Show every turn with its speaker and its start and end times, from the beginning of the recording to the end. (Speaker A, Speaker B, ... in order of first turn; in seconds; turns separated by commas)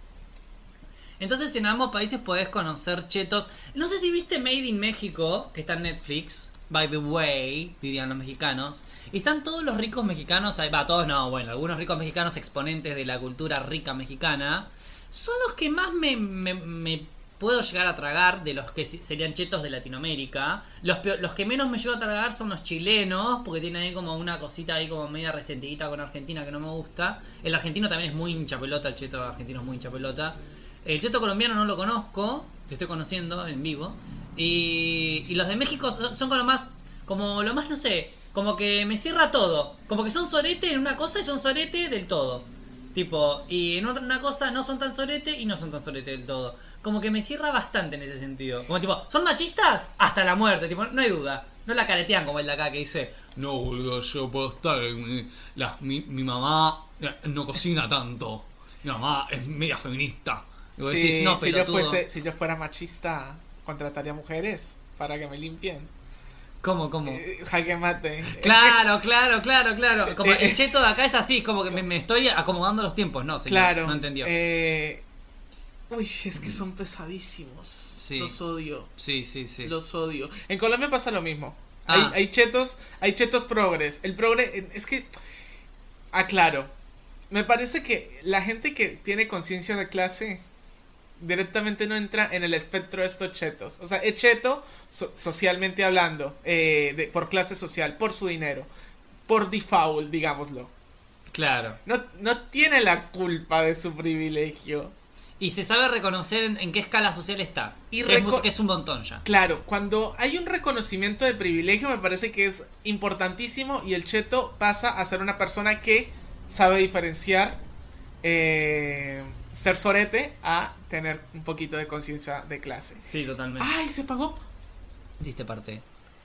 Speaker A: 1.2-62.0, Speaker B: 60.8-65.9, Speaker A: 66.6-67.2, Speaker B: 67.0-68.8, Speaker A: 68.3-74.3, Speaker B: 70.0-70.8, Speaker B: 73.5-75.0, Speaker B: 75.9-78.9, Speaker A: 78.0-78.3, Speaker A: 79.0-79.7, Speaker B: 79.6-85.1, Speaker A: 81.9-82.2, Speaker B: 86.1-86.7, Speaker B: 87.3-90.4, Speaker B: 91.2-98.7, Speaker B: 99.3-100.7, Speaker A: 101.3-101.8, Speaker B: 101.8-104.9, Speaker A: 105.4-109.2, Speaker B: 107.9-108.5, Speaker B: 109.2-117.6, Speaker B: 118.2-123.0, Speaker A: 123.1-123.7, Speaker B: 123.6-124.4, Speaker A: 125.2-125.8